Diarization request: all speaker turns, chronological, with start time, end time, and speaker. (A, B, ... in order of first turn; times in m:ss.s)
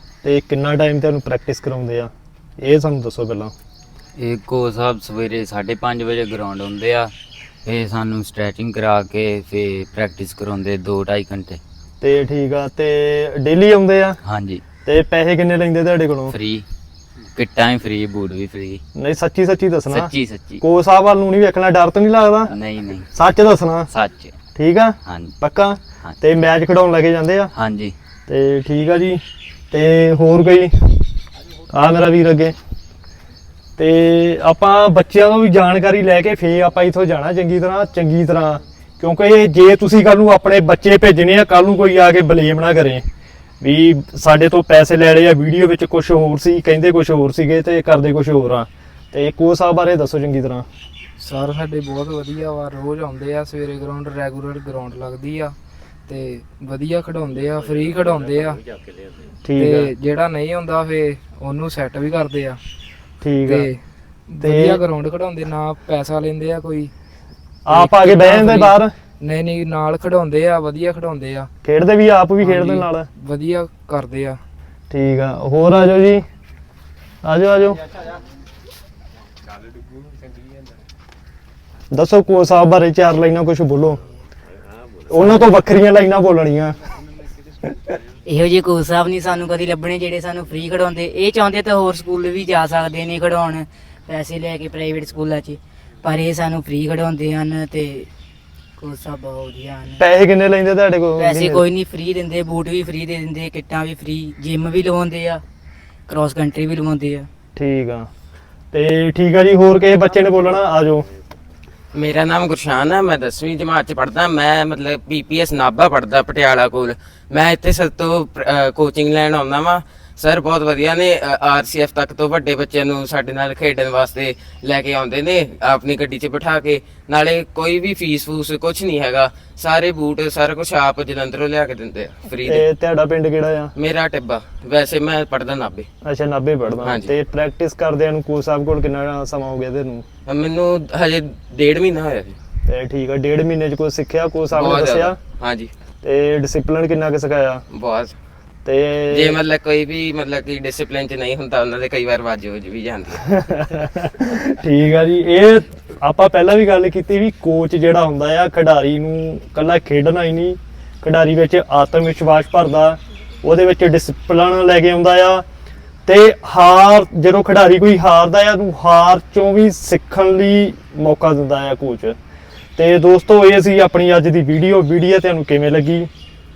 0:00.2-0:03.5 A
0:04.2-0:07.1 B
0:07.6-0:11.6 B
0:12.0-0:14.2 A
0:14.2-0:14.6 B
0:14.8-0:16.3 A
0:16.3-0:16.6 B
0:17.4-0:18.8 B
0:18.9-0:22.5 A
0:19.9-0:20.6 B
0:22.5-0:23.1 B
0:23.1-0:23.9 A
0:23.9-0:24.3 B
0:24.6-0:27.5 A
0:25.0-0:25.3 B
0:27.5-0:27.9 B
0:28.3-0:31.1 A
0:31.7-0:32.6 A
0:33.8-0:43.0 A
0:43.6-0:50.7 A
0:51.2-0:55.5 C
0:56.1-0:58.6 C
0:59.4-0:59.9 A
0:59.5-1:02.6 C
1:03.2-1:03.7 A
1:03.4-1:06.9 C
1:04.4-1:04.8 A
1:07.6-1:08.9 A
1:07.7-1:11.5 C
1:11.6-1:13.1 A
1:12.4-1:14.4 C
1:14.9-1:16.2 A
1:17.2-1:17.8 A
1:21.9-1:24.0 A
1:25.1-1:26.8 A
1:28.2-1:38.1 D
1:38.8-1:40.0 D
1:40.0-1:41.6 A
1:41.2-1:45.4 D
1:46.1-1:47.3 D
1:47.6-1:48.1 A
1:48.7-1:51.0 A
1:51.9-2:12.6 E
2:12.4-2:13.7 A
2:13.8-2:15.9 E
2:16.0-2:20.0 A
2:16.8-2:17.1 E
2:20.3-2:22.4 E
2:22.6-2:25.2 A
2:24.5-2:25.7 E
2:26.0-2:27.6 A
2:27.7-2:28.1 E
2:28.6-2:29.4 A
2:29.1-2:33.2 E
2:33.3-2:45.4 A
2:46.0-2:52.2 A
2:52.8-2:56.1 A